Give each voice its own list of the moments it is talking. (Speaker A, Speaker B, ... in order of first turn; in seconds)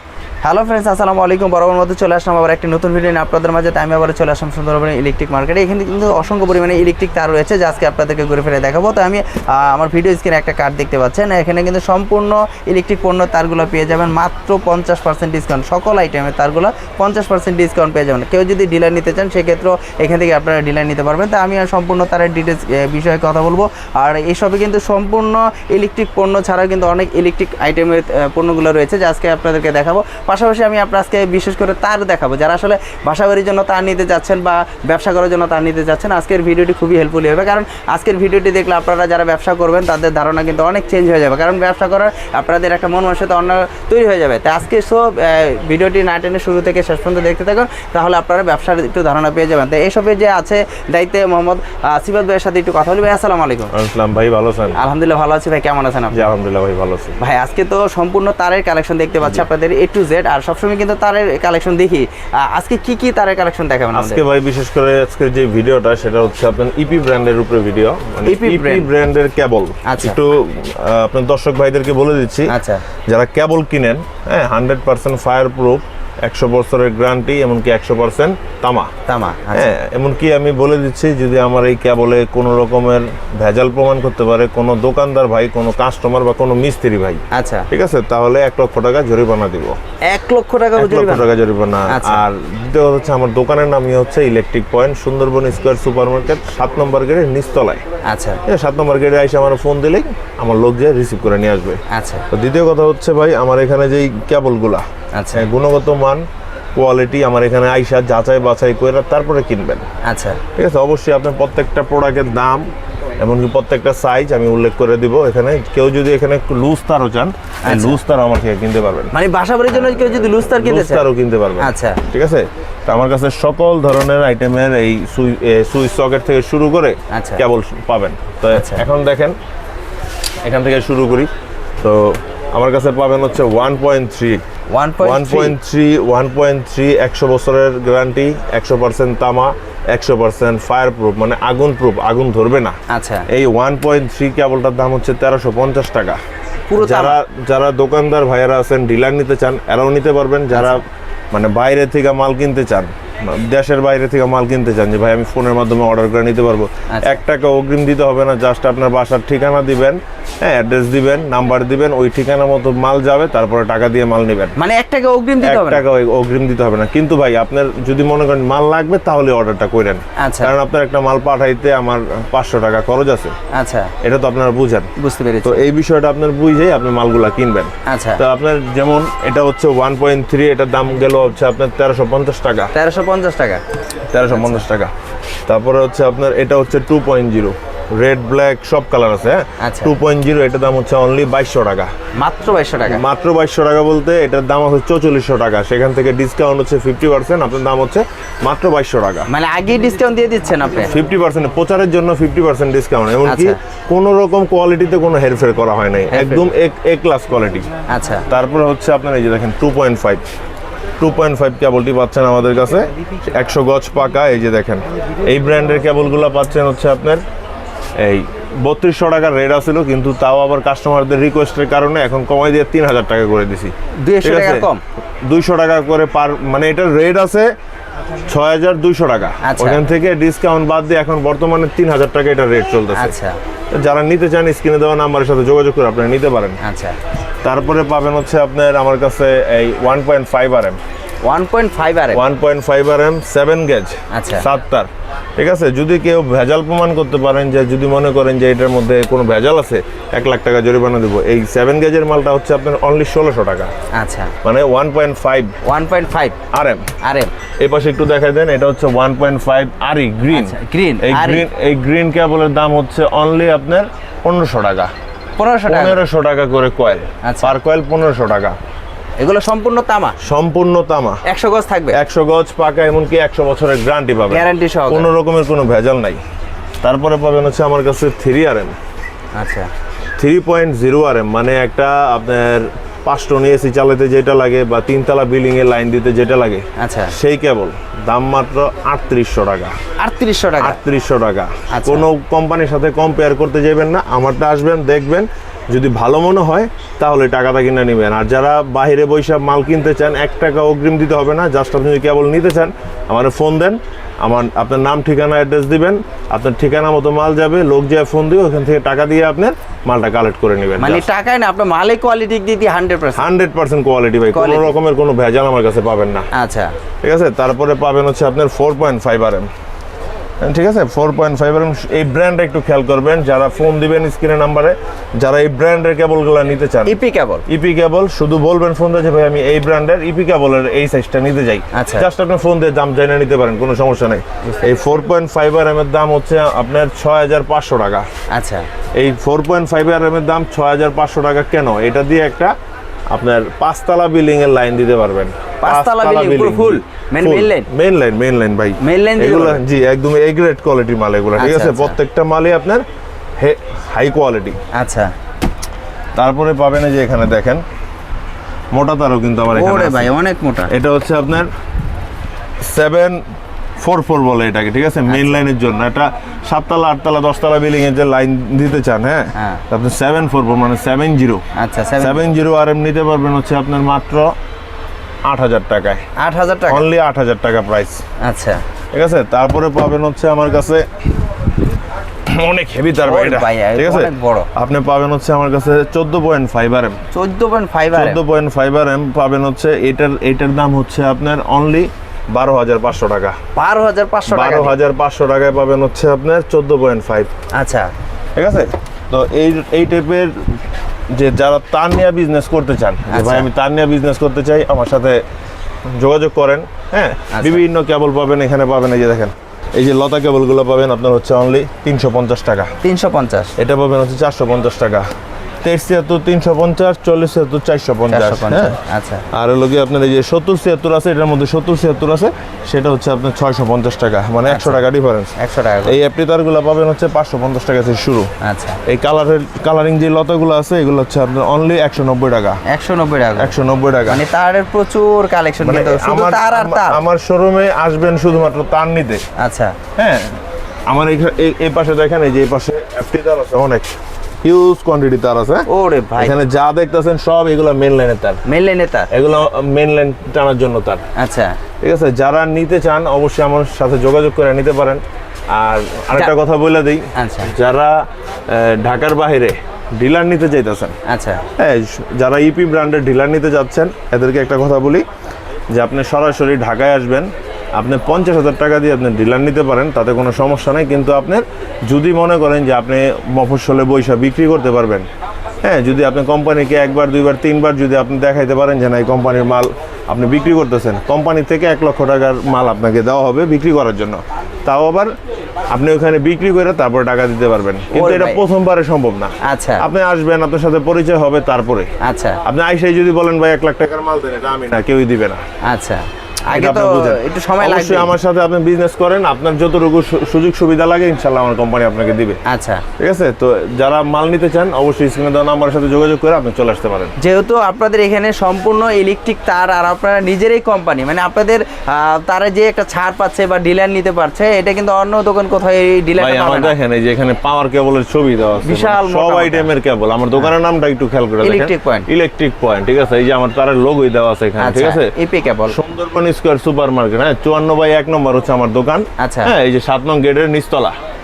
Speaker A: 0.4-53.7, 54.8-56.3, 57.2-64.2, 68.2-68.9, 69.8-70.2, 72.5-72.8, 79.1-79.7, 87.3-87.7, 90.1-91.3, 91.9-92.2, 98.1-98.4, 101.9-102.3, 105.1-105.5, 110.0-110.4, 117.7-118.0, 119.1-121.1, 121.6-122.0, 127.1-127.4, 128.5-128.8, 134.7-135.6, 142.9-143.3, 146.7-147.2, 150.5-150.8, 156.9-157.2, 164.6-165.8, 170.2-170.5, 173.5-173.9, 175.0-175.6, 177.8-178.2, 182.7-183.6, 184.3-184.6, 189.6-189.9, 192.2-193.0, 199.3-200.9, 203.3-203.6, 206.1-206.5, 207.9-208.2, 224.0-224.8, 229.4-229.8, 233.0-233.4, 236.6-237.0, 241.2-242.2, 244.1-244.5, 253.9-254.3, 255.6-256.4, 257.0-257.3, 260.3-261.5, 265.4-266.1, 267.2-267.6, 269.2-270.2, 271.3-272.0, 274.3-275.1, 279.4-279.7, 286.8-287.1, 290.0-290.8, 291.7-292.1, 310.8-313.3, 314.3-314.7, 316.3-316.7, 326.9-327.4, 331.7-332.1, 338.3-338.7, 345.6-347.7, 348.8-349.6, 351.4-352.0, 354.7-355.1, 359.5-360.7, 369.4-369.6, 371.6-372.3, 376.2-376.9, 378.2-378.6, 383.0-384.5, 387.1-388.2, 393.6-394.7, 397.5-397.9, 403.1-403.5, 407.3-407.6, 412.8-413.5, 418.1-419.2, 424.5-424.8, 425.4-426.0, 428.4-428.8, 432.7-437.0, 439.4-439.8, 445.7-446.4, 448.5-449.1, 451.2-451.6, 457.1-457.5, 461.1-461.4, 487.9-488.4, 489.4-489.9, 492.0-492.4, 495.6-498.1, 502.5-502.8, 507.2-516.8, 518.6-519.7, 521.4-522.1, 524.6-525.8, 529.2-529.5
Speaker B: 53.7-54.8, 56.1-57.1, 63.9-72.6, 73.1-78.9, 79.5-89.8, 90.8-97.8, 98.5-101.8, 102.3-106.2, 106.8-109.8, 110.6-112.7, 113.2-119.1, 119.7-129.4, 130.4-131.3, 131.8-134.4, 135.0-142.8, 143.3-146.2, 146.8-164.6, 165.4-173.3, 174.0-174.9, 175.4-182.7, 184.1-184.9, 185.5-191.9, 192.9-199.3, 200.9-207.7, 208.3-210.2, 211.0-217.2, 218.0-224.7, 225.2-227.5, 228.3-233.2, 233.7-236.6, 237.4-240.8, 242.1-253.7, 254.4-255.6, 256.5-256.9, 257.6-264.9, 265.7-268.6, 270.2-271.2, 271.9-276.2, 276.8-278.7, 280.2-289.8, 290.6-311.1, 313.2-316.3, 317.0-319.5, 320.4-338.1, 339.0-342.5, 343.1-352.8, 353.4-354.6, 356.2-357.6, 358.7-360.1, 360.7-361.5, 362.6-363.2, 363.8-371.4, 372.0-374.3, 375.3-376.0, 376.7-378.0, 378.9-380.9, 382.3-387.0, 387.9-393.4, 394.3-397.3, 398.4-400.4, 401.1-405.2, 405.9-412.7, 413.6-415.1, 415.6-418.8, 419.3-425.3, 425.9-428.3, 428.9-432.6, 433.4-434.2, 435.6-439.2, 440.0-445.7, 446.2-448.4, 449.1-451.0, 451.8-455.0, 455.5-460.9, 461.6-465.1, 465.7-475.1, 475.6-485.1, 485.7-491.9, 492.4-495.4, 496.5-502.4, 503.0-507.1, 516.2-525.1, 525.7-531.0